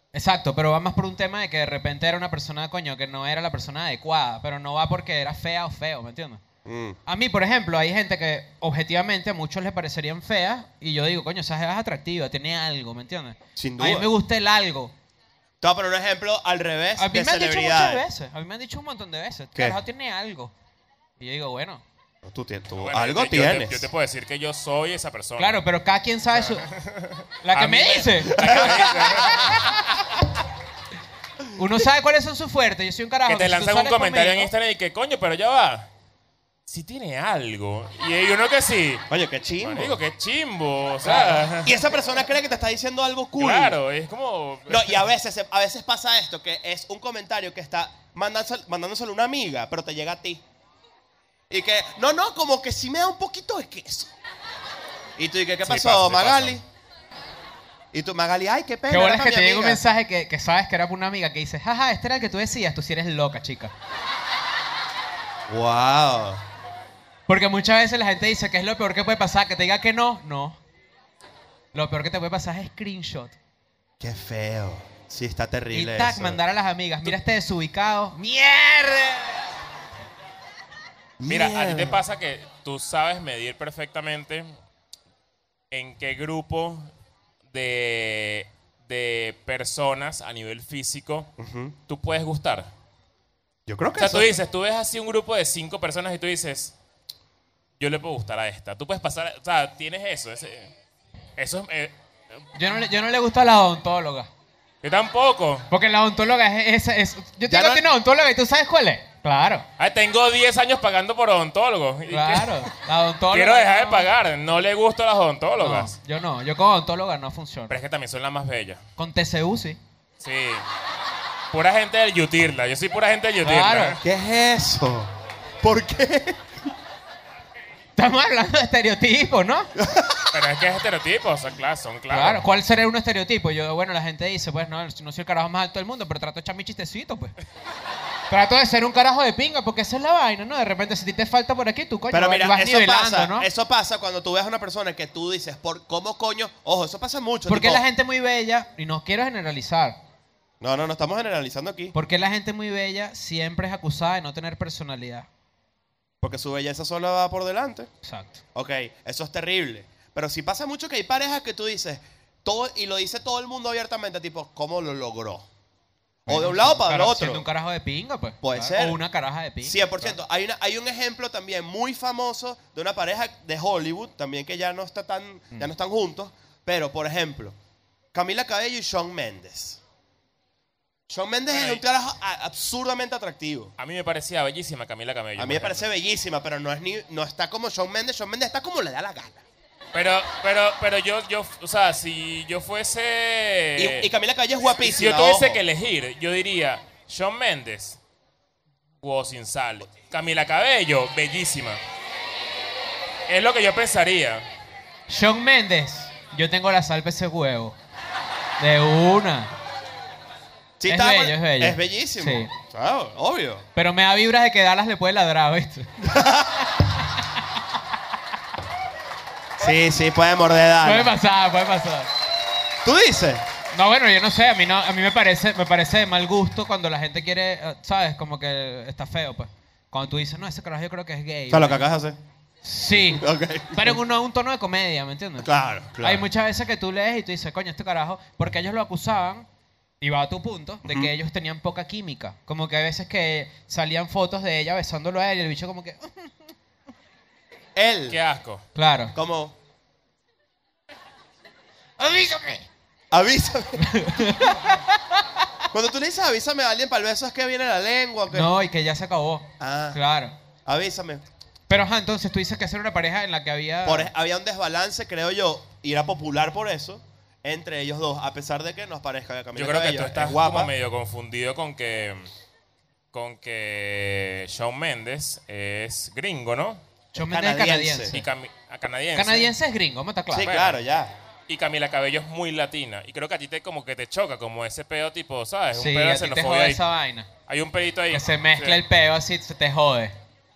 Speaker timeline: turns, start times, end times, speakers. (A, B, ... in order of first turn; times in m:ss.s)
0:00.1-0:06.4 A
0:06.6-0:07.0 B
0:07.1-0:14.9 A
0:13.6-0:14.1 B
0:15.6-0:18.0 B
0:17.0-0:20.5 A
0:21.2-0:21.8 A
0:22.2-0:23.9 B
0:22.8-0:25.6 C
0:25.4-0:26.6 A
0:26.4-0:29.7 C
0:27.4-0:28.7 A
0:28.2-0:29.6 B
0:31.6-0:34.5 A
0:33.3-0:35.9 C
0:36.7-0:39.0 C
0:39.1-0:40.0 B
0:39.6-0:41.8 C
0:41.0-0:41.4 A
0:41.6-0:43.8 B
0:43.4-0:45.0 C
0:44.7-0:50.4 B
0:51.5-0:54.1 B
0:55.2-0:56.6 B
0:55.6-0:56.6 C
0:57.9-0:59.8 B
0:58.9-1:03.7 A
1:05.5-1:06.4 B
1:07.3-1:10.6 A
1:11.7-1:13.4 A
1:14.0-1:16.4 B
1:15.7-1:19.3 A
1:21.2-1:22.0 B
1:21.3-1:24.5 C
1:25.7-1:26.9 C
1:27.5-1:31.3 C
1:31.4-1:31.8 B
1:31.9-1:32.7 C
1:33.7-1:34.4 B
1:34.0-1:36.7 C
1:37.8-1:40.7 C
1:41.4-1:41.9 C
1:42.6-1:44.3 A
1:44.8-1:45.7 C
1:45.7-1:49.6 A
1:47.5-1:47.8 B
1:49.8-1:52.7 C
1:52.1-1:54.1 A
1:53.3-1:55.9 C
1:55.6-1:57.7 A
1:57.7-1:58.8 C
1:59.0-1:59.8 A
2:00.2-2:00.6 C
2:01.5-2:04.0 C
2:03.4-2:04.0 A
2:04.0-2:06.5 B
2:08.0-2:09.7 A
2:09.8-2:10.3 B
2:10.3-2:12.4 C
2:12.1-2:17.3 A
2:18.3-2:23.5 A
2:22.1-2:27.8 B
2:27.5-2:30.0 A
2:30.6-2:32.0 B
2:31.9-2:35.3 A
2:36.2-2:37.9 B
2:38.0-2:38.4 A
2:38.6-2:45.4 B
2:46.3-2:47.4 B
2:46.3-2:50.1 A
2:48.4-2:49.0 B
2:49.6-2:57.6 B
2:58.1-2:59.8 B
3:01.1-3:03.7 B
3:01.5-3:01.8 C
3:03.8-3:05.9 C
3:05.4-3:09.4 B
3:09.9-3:14.1 C
3:13.8-3:15.6 B
3:14.8-3:18.0 C
3:19.0-3:21.8 C
3:23.3-3:24.4 C
3:25.1-3:27.8 A
3:28.6-3:29.5 A
3:30.8-3:33.7 B
3:30.9-3:32.5 A
3:33.8-3:35.9 A
3:36.0-3:36.6 B
3:39.6-3:41.1 B
3:40.8-3:42.1 A
3:42.8-3:43.4 B
3:43.7-3:51.8 A
3:51.5-3:52.2 B
3:52.6-3:55.5 A
3:53.0-3:54.0 B
3:55.4-3:56.3 B
3:56.0-3:59.4 A
4:00.0-4:06.3 A
4:00.8-4:01.1 B
4:07.8-4:08.2 B
4:08.1-4:08.6 C
4:08.8-4:09.1 A
4:09.1-4:09.6 B
4:12.0-4:12.6 A
4:13.1-4:14.0 B
4:13.8-4:14.8 A
4:15.7-4:18.5 B
4:18.3-4:20.3 A
4:19.6-4:20.0 B
4:20.7-4:21.2 B
4:21.7-4:24.1 A
4:23.8-4:30.7 B
4:29.6-4:32.3 C
4:33.1-4:36.8 C
4:37.2-4:38.2 A
4:37.2-4:38.2 B
4:38.1-4:39.5 C
4:39.2-4:40.6 A
4:40.3-4:41.1 B
4:41.5-4:46.8 C
4:45.7-4:47.3 A
4:47.5-4:48.8 C
4:48.1-4:50.1 A